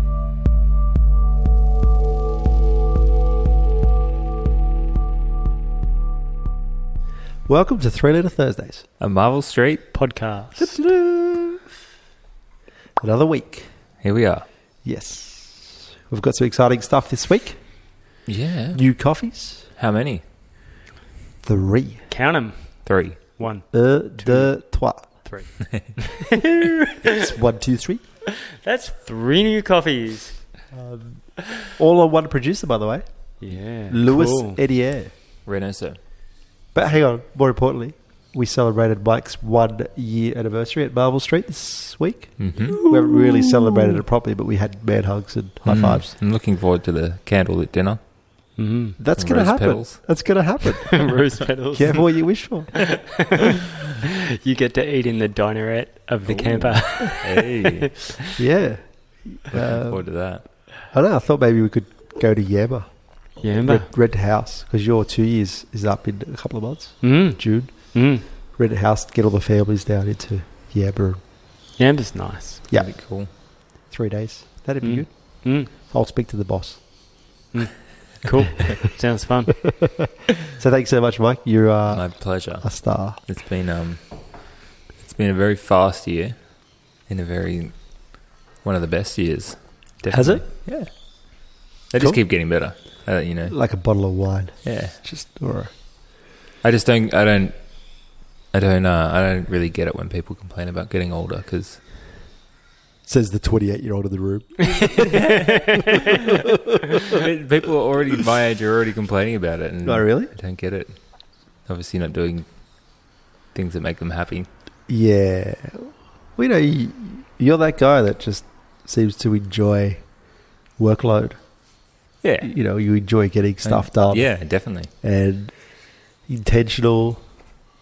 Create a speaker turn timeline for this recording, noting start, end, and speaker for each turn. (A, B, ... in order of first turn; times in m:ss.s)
0:07.5-0:08.8 A
0:09.0-0:09.9 B
0:09.9-0:10.7 C
0:10.6-0:11.7 A
0:13.0-0:13.7 A
0:14.0-0:14.4 B
0:14.8-0:17.6 A
0:18.2-0:18.8 B
0:18.7-0:19.7 A
0:19.8-0:20.2 B
0:21.4-0:22.1 A
0:22.1-0:26.7 C
0:22.8-0:23.2 B
0:23.7-0:25.2 A
0:27.0-0:28.0 A
0:28.5-0:30.4 C
0:30.7-0:35.1 A
0:33.4-0:34.6 C
0:35.4-0:36.0 B
0:36.7-0:46.1 A
0:42.4-0:42.8 B
0:42.6-0:43.9 C
0:45.6-0:48.1 B
0:48.6-0:49.0 C
0:49.0-0:53.0 A
0:49.2-0:50.2 B
0:50.9-0:52.4 C
0:53.1-0:58.2 C
0:56.2-0:58.1 B
0:58.4-1:11.2 A
0:59.5-1:00.4 B
1:03.4-1:03.9 C
1:07.0-1:08.2 C
1:11.8-1:12.6 C
1:12.7-1:16.8 A
1:12.7-1:13.3 B
1:14.8-1:15.7 C
1:17.5-1:20.1 C
1:20.0-1:23.2 A
1:21.9-1:33.6 B
1:30.1-1:30.5 A
1:32.8-1:35.7 A
1:34.6-1:35.0 B
1:36.6-1:41.8 B
1:43.0-1:45.2 A
1:45.0-1:46.1 C
1:45.1-1:45.5 B
1:47.0-1:54.5 B
1:49.8-1:50.3 A
1:54.9-2:00.1 A
2:00.8-2:01.4 A
2:02.2-2:02.5 B
2:02.4-2:05.7 A
2:03.6-2:04.9 B
2:06.2-2:07.2 A